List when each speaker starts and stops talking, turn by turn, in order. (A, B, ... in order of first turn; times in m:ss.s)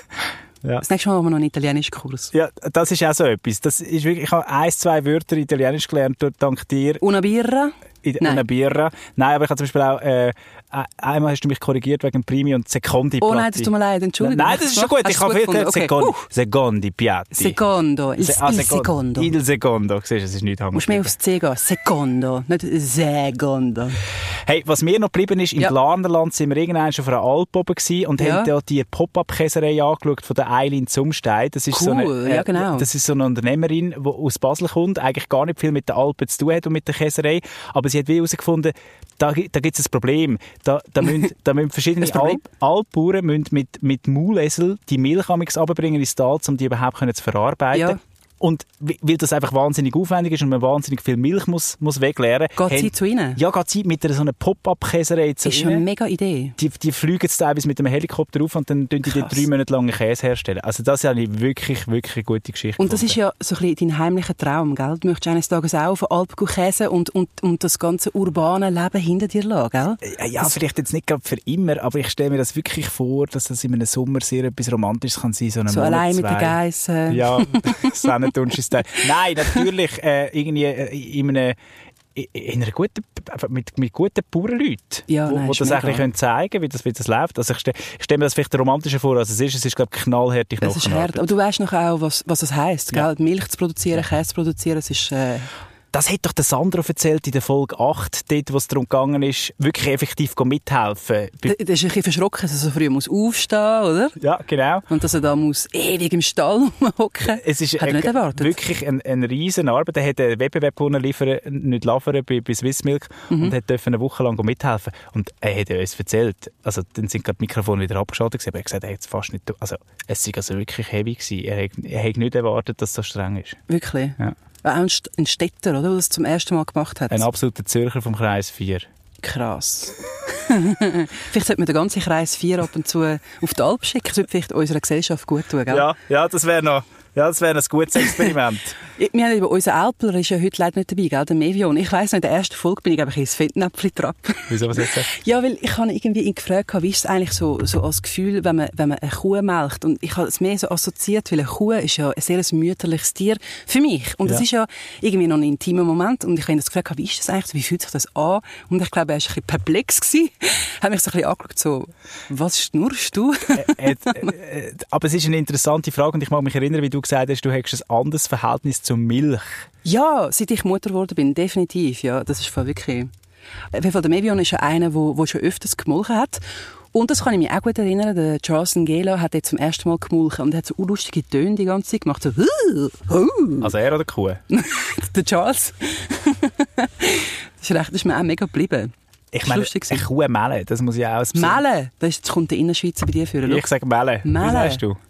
0:00.8-0:02.3 A
0:02.3-0:07.0 B
0:07.0-0:08.5 A
0:08.0-0:17.6 B
0:13.2-0:16.3 A
0:17.3-0:19.3 A
0:18.2-0:21.2 B
0:20.7-0:24.0 A
0:24.5-0:55.8 B
0:28.2-0:28.5 A
0:31.7-0:32.9 A
0:42.0-0:42.4 A
0:47.7-0:48.0 A
0:52.6-0:53.4 A
0:55.4-0:56.6 A
0:56.6-1:03.2 B
0:59.0-0:59.4 A
1:02.8-1:10.5 A
1:10.0-1:21.6 B
1:15.7-1:19.7 A
1:22.2-1:31.3 B
1:25.1-1:26.0 A
1:30.6-1:35.5 A
1:35.9-1:41.6 B
1:41.4-1:44.2 A
1:44.2-1:44.9 B
1:44.9-1:48.6 A
1:47.3-2:03.6 B
1:53.3-1:53.6 A
2:03.7-2:07.3 A
2:07.1-2:08.9 B
2:09.2-2:15.9 A
2:15.7-2:18.8 B
2:18.0-2:18.3 A
2:18.9-2:44.3 A
2:24.5-2:25.1 B
2:43.5-2:49.5 B
2:49.8-2:53.1 A
2:53.7-2:56.4 A
2:56.9-3:03.7 A
3:03.6-3:04.4 B
3:04.5-3:08.9 A
3:09.3-3:11.6 B
3:09.4-3:10.1 A
3:11.3-3:13.7 A
3:13.4-3:15.0 B
3:14.2-3:14.8 A